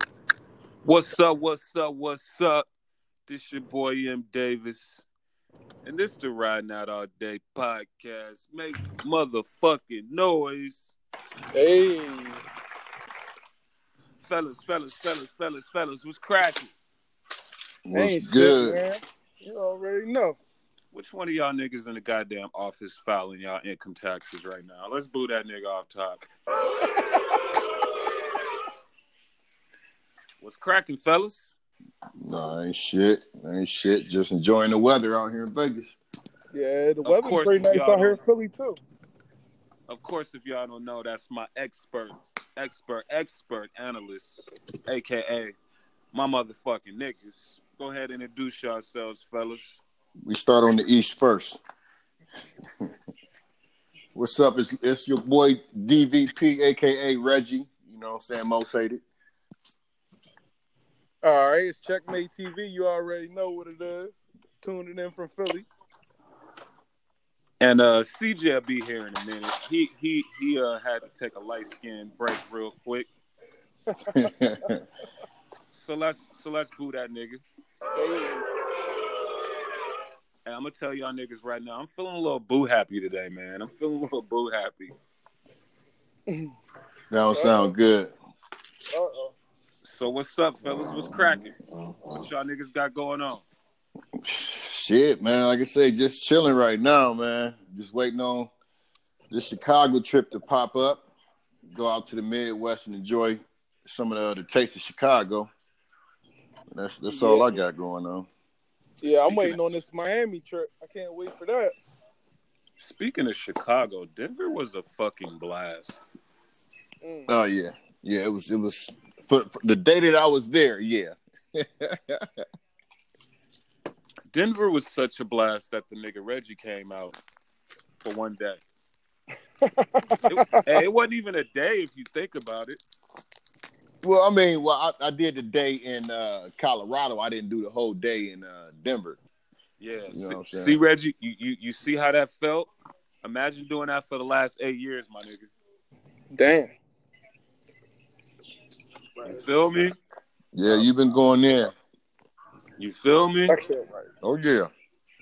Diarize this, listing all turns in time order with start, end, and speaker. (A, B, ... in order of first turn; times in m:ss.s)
0:00.8-0:02.6 A
0:03.3-0:05.0 A
0:05.8-0:10.9 A
0:11.5-0:12.4 B
0:14.2-0:16.7 A
0:17.8-0:18.8 C
0:17.9-0:20.4 B
0:20.9-0:26.2 A
0:26.8-0:27.4 B
0:30.4-0:31.5 A
0:32.2-0:36.0 C
0:36.5-0:38.8 B
0:37.0-0:38.2 A
0:39.9-0:45.6 A
0:46.1-0:49.8 A
0:50.2-0:51.6 C
0:54.1-0:59.0 C
1:01.2-1:05.7 B
1:07.6-1:13.1 A
1:13.9-1:14.3 B
1:14.0-1:14.8 C
1:15.7-1:17.4 A
1:17.9-1:18.5 B
1:20.4-1:24.9 A
1:27.1-1:28.1 C
1:27.3-1:27.7 B
1:28.9-1:29.3 B
1:29.8-1:31.5 A
1:30.9-1:31.4 C
1:32.2-1:33.4 A
1:34.2-1:38.5 C
1:39.3-1:41.0 C
1:41.7-1:45.5 C
1:46.7-1:48.3 C
1:47.1-1:47.5 B
1:49.0-1:51.7 B
1:52.8-1:56.0 A
1:57.0-1:57.3 B
1:57.3-2:02.3 C
2:04.3-2:07.2 A
2:08.0-2:08.6 A
2:09.6-2:10.6 B
2:10.3-2:12.8 A
2:14.0-2:19.2 C
2:19.8-2:22.7 A
2:20.1-2:20.8 C
2:23.2-2:25.5 A
2:26.3-2:26.7 B
2:29.2-2:30.0 A
2:30.5-2:31.7 C
2:32.8-2:33.6 A
2:33.5-2:34.1 B
2:34.2-2:34.7 C